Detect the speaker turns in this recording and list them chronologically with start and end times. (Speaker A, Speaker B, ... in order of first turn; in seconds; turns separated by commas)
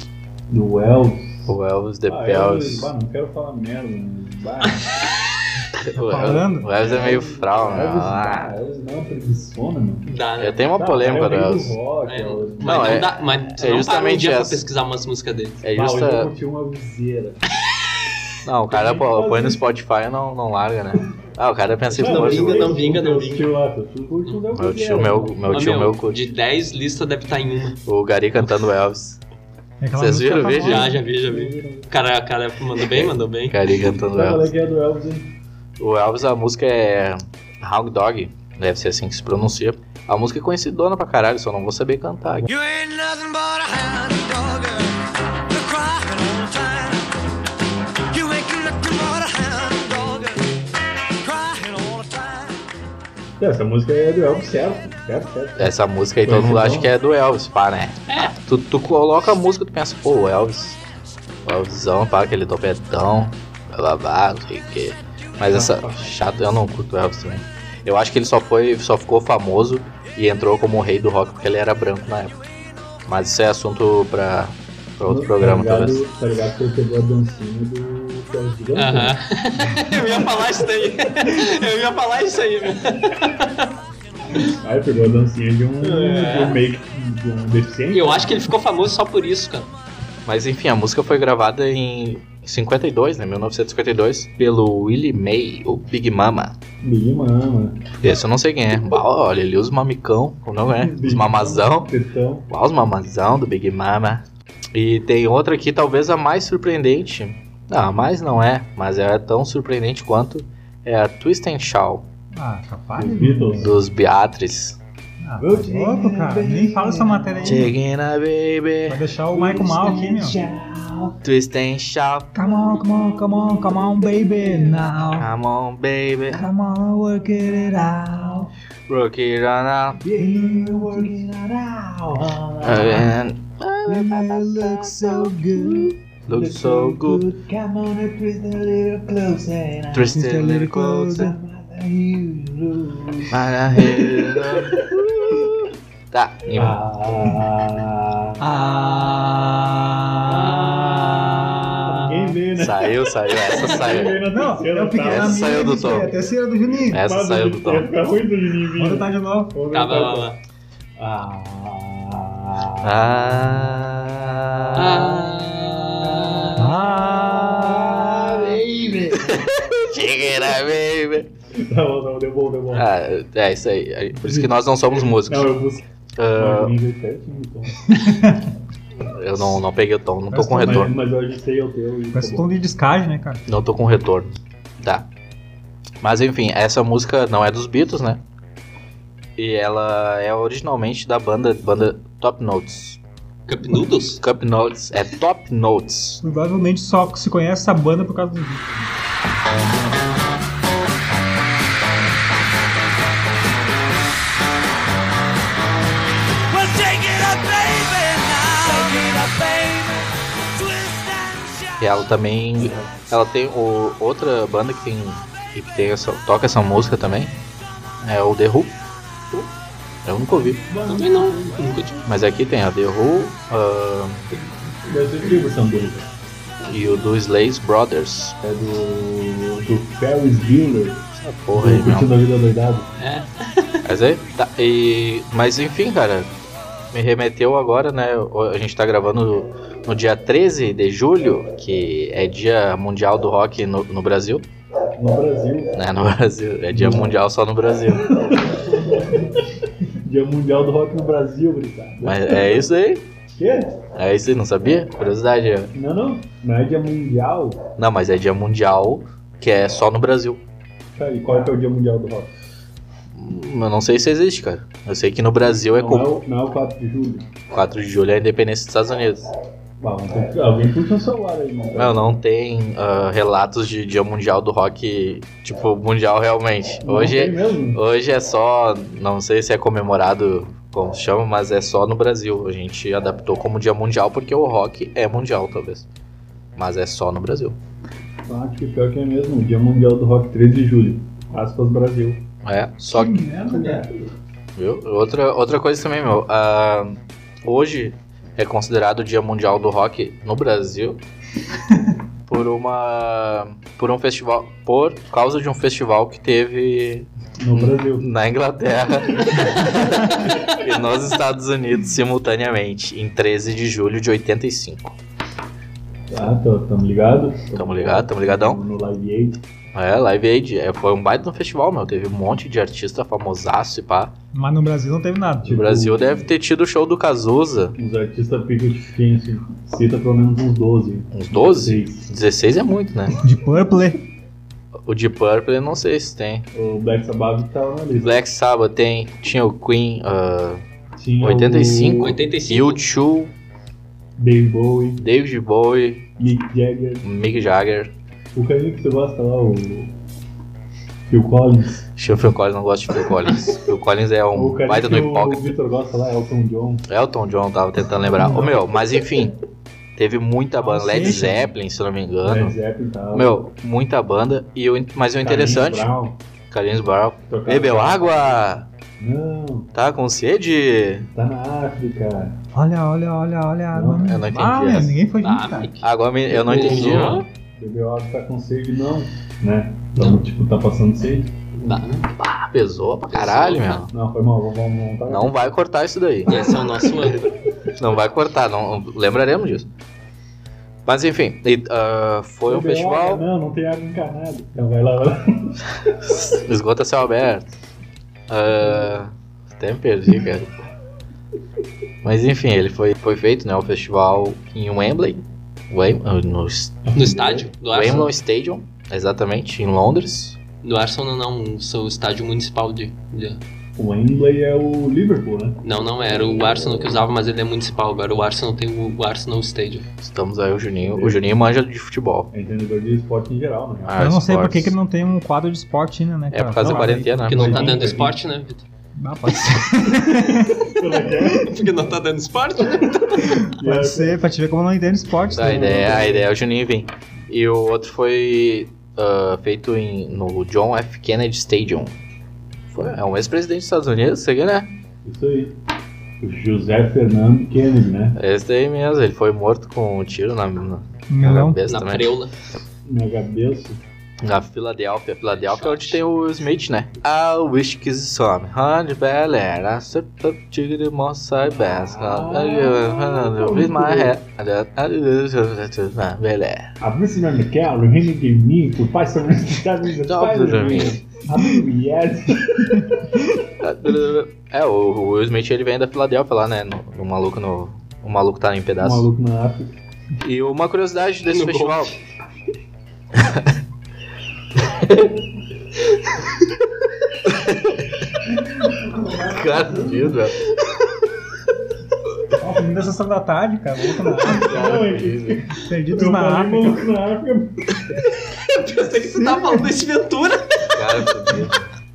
Speaker A: 0.5-1.5, Speaker B: 1.5-2.9, Speaker A: 2.1-4.9, Speaker B: 5.8-8.5, Speaker C: 6.0-6.7, Speaker A: 6.8-10.1, Speaker D: 10.1-10.6, Speaker B: 10.4-11.8, Speaker A: 10.7-13.0, Speaker D: 12.1-15.6, Speaker B: 12.6-14.6, Speaker B: 15.6-16.3, Speaker A: 15.7-17.4, Speaker B: 18.4-22.8, Speaker A: 18.7-19.7, Speaker A: 21.9-25.7, Speaker D: 21.9-23.5, Speaker B: 24.5-26.3, Speaker D: 25.5-27.8, Speaker B: 27.9-29.2, Speaker C: 29.8-31.0, Speaker B: 30.0-31.0, Speaker D: 30.6-33.6, Speaker A: 31.1-31.9, Speaker B: 32.9-34.5, Speaker A: 34.1-35.3, Speaker B: 35.8-42.5, Speaker E: 42.5-47.1, Speaker E: 48.1-50.6, Speaker E: 51.2-52.6, Speaker A: 53.4-56.9, Speaker B: 55.6-60.8, Speaker D: 58.1-58.3, Speaker B: 61.5-72.3, Speaker A: 65.5-66.2, Speaker B: 73.1-76.0, Speaker A: 75.1-79.2, Speaker D: 78.8-83.7, Speaker A: 79.7-81.1, Speaker A: 84.5-88.3, Speaker D: 85.8-86.6, Speaker D: 87.9-89.7, Speaker B: 90.3-96.5, Speaker A: 96.8-97.9, Speaker B: 98.0-101.9, Speaker A: 100.7-102.5, Speaker B: 102.5-112.1, Speaker C: 112.3-113.8, Speaker A: 113.0-113.8, Speaker B: 113.6-114.8, Speaker C: 115.2-117.7, Speaker A: 115.4-117.7, Speaker B: 117.4-119.0, Speaker C: 118.9-120.4, Speaker A: 119.3-121.2, Speaker B: 121.2-122.4, Speaker C: 122.3-125.3, Speaker A: 122.5-125.0, Speaker B: 125.2-126.5, Speaker C: 126.3-128.5, Speaker B: 128.9-130.1, Speaker A: 130.0-133.1, Speaker C: 130.2-131.1, Speaker B: 132.6-134.8, Speaker C: 133.9-135.9, Speaker A: 134.4-135.3, Speaker B: 136.3-137.2, Speaker A: 136.3-140.2, Speaker B: 139.9-141.3, Speaker C: 140.1-141.3, Speaker A: 141.1-143.4, Speaker B: 143.3-144.8, Speaker A: 143.9-145.6, Speaker B: 146.1-146.8, Speaker A: 146.5-148.4, Speaker B: 148.4-151.9, Speaker C: 148.5-149.5, Speaker A: 150.3-151.1, Speaker C: 150.3-152.3, Speaker A: 151.8-156.1, Speaker B: 152.6-154.2, Speaker C: 154.3-157.1, Speaker B: 155.1-156.1, Speaker B: 156.9-157.9, Speaker A: 157.0-160.3, Speaker C: 158.8-159.6, Speaker D: 159.7-160.4, Speaker A: 161.0-165.3, Speaker B: 162.8-165.3, Speaker D: 164.8-166.5, Speaker A: 166.1-169.5, Speaker C: 166.6-168.2, Speaker B: 169.1-171.3, Speaker A: 171.6-172.9, Speaker B: 172.7-175.5, Speaker A: 174.2-175.8, Speaker B: 176.2-176.8, Speaker A: 176.4-178.2, Speaker C: 177.9-178.4, Speaker B: 179.0-180.9, Speaker C: 180.3-180.9, Speaker A: 180.6-182.5, Speaker C: 182.1-183.4, Speaker B: 183.5-185.1, Speaker B: 186.0-188.2, Speaker B: 189.4-193.0, Speaker D: 193.5-194.2, Speaker B: 194.2-196.2, Speaker C: 196.2-198.8, Speaker E: 206.5-212.0, Speaker B: 211.8-217.3, Speaker A: 212.6-212.9, Speaker B: 218.0-218.8, Speaker B: 220.1-220.6, Speaker A: 220.7-221.9, Speaker D: 220.8-222.0, Speaker B: 222.1-224.3, Speaker A: 224.8-226.0, Speaker B: 226.7-228.4, Speaker A: 228.4-232.9, Speaker B: 231.1-232.1, Speaker D: 233.0-233.8, Speaker B: 233.8-236.3, Speaker B: 236.9-244.5, Speaker A: 245.0-245.8, Speaker B: 245.7-248.3, Speaker A: 246.7-247.2, Speaker A: 248.0-249.4, Speaker A: 250.0-252.7, Speaker B: 252.0-253.1, Speaker A: 253.4-253.8, Speaker B: 253.9-255.7, Speaker A: 255.7-257.6, Speaker B: 257.8-260.4, Speaker A: 261.0-262.3, Speaker B: 263.1-266.2, Speaker A: 265.7-267.3, Speaker B: 267.5-269.3, Speaker A: 269.8-272.2, Speaker B: 271.8-285.9, Speaker A: 276.8-277.8, Speaker B: 286.6-287.6, Speaker A: 288.3-292.2, Speaker B: 292.4-293.3, Speaker C: 292.9-293.9, Speaker D: 293.5-293.8, Speaker B: 294.6-301.0, Speaker B: 302.3-315.0, Speaker A: 307.4-308.1, Speaker A: 309.3-309.9, Speaker A: 316.1-319.4, Speaker B: 317.6-318.6, Speaker B: 319.7-324.1, Speaker C: 324.4-325.6, Speaker A: 325.4-326.2, Speaker B: 325.5-327.8, Speaker A: 327.8-332.1, Speaker B: 331.1-333.2, Speaker C: 333.2-334.0, Speaker B: 334.9-336.5, Speaker A: 336.5-338.2, Speaker B: 337.9-340.6, Speaker A: 341.0-342.2, Speaker B: 341.2-343.3, Speaker D: 342.0-342.8, Speaker A: 344.2-345.1, Speaker B: 345.0-346.1, Speaker A: 346.2-347.1, Speaker B: 347.0-347.9, Speaker A: 348.3-349.9, Speaker A: 351.1-351.9, Speaker B: 352.0-355.6, Speaker A: 354.3-356.9, Speaker B: 356.9-359.4, Speaker A: 358.2-358.6, Speaker B: 360.0-362.6, Speaker C: 360.6-361.5, Speaker A: 362.2-363.4, Speaker B: 363.1-365.9, Speaker A: 365.2-366.2, Speaker B: 366.5-368.7, Speaker A: 367.3-368.4, Speaker A: 369.0-369.7, Speaker B: 369.7-371.1, Speaker A: 371.1-372.4, Speaker C: 372.5-375.7, Speaker A: 373.7-374.1, Speaker B: 374.0-375.0, Speaker D: 375.2-377.2, Speaker B: 375.8-377.3, Speaker A: 376.3-381.8, Speaker D: 380.0-380.2, Speaker D: 381.6-382.1, Speaker B: 382.2-383.9, Speaker D: 383.1-383.9, Speaker A: 383.9-385.4, Speaker B: 385.1-386.6, Speaker D: 386.3-387.5, Speaker B: 387.8-389.7, Speaker B: 390.9-393.2, Speaker A: 392.5-395.9, Speaker B: 396.0-397.5, Speaker B: 398.3-400.5, Speaker B: 402.0-406.8, Speaker A: 406.9-408.1, Speaker D: 406.9-408.1, Speaker B: 407.7-410.4, Speaker D: 410.6-413.4, Speaker A: 413.8-417.0, Speaker D: 415.6-419.9, Speaker B: 420.0-422.3, Speaker A: 420.8-421.2, Speaker A: 422.3-423.9, Speaker B: 423.8-424.8, Speaker C: 424.0-427.3, Speaker B: 426.3-427.8, Speaker A: 426.6-428.2, Speaker D: 427.3-428.6, Speaker C: 429.0-431.5, Speaker A: 430.7-431.9, Speaker D: 431.3-433.4, Speaker A: 432.7-434.2, Speaker C: 433.2-436.1, Speaker B: 435.3-441.9, Speaker A: 435.4-436.3, Speaker B: 442.7-444.7, Speaker A: 445.1-445.6, Speaker A: 446.2-448.2, Speaker B: 448.2-452.1, Speaker C: 451.1-451.6, Speaker D: 451.7-452.3, Speaker A: 452.9-453.8, Speaker B: 454.2-466.8, Speaker D: 455.3-456.0, Speaker A: 461.4-464.1, Speaker A: 466.8-472.9, Speaker B: 470.0-471.0, Speaker B: 473.6-479.1, Speaker A: 478.8-479.8, Speaker B: 480.2-481.9, Speaker D: 481.3-482.0, Speaker B: 483.1-483.6, Speaker B: 484.6-485.1, Speaker B: 487.3-487.8, Speaker A: 488.9-490.1, Speaker B: 489.2-490.4, Speaker C: 492.4-494.6, Speaker A: 494.2-497.8, Speaker B: 494.2-495.5, Speaker C: 495.6-496.9, Speaker D: 498.2-501.3, Speaker C: 499.2-499.6, Speaker B: 500.7-501.7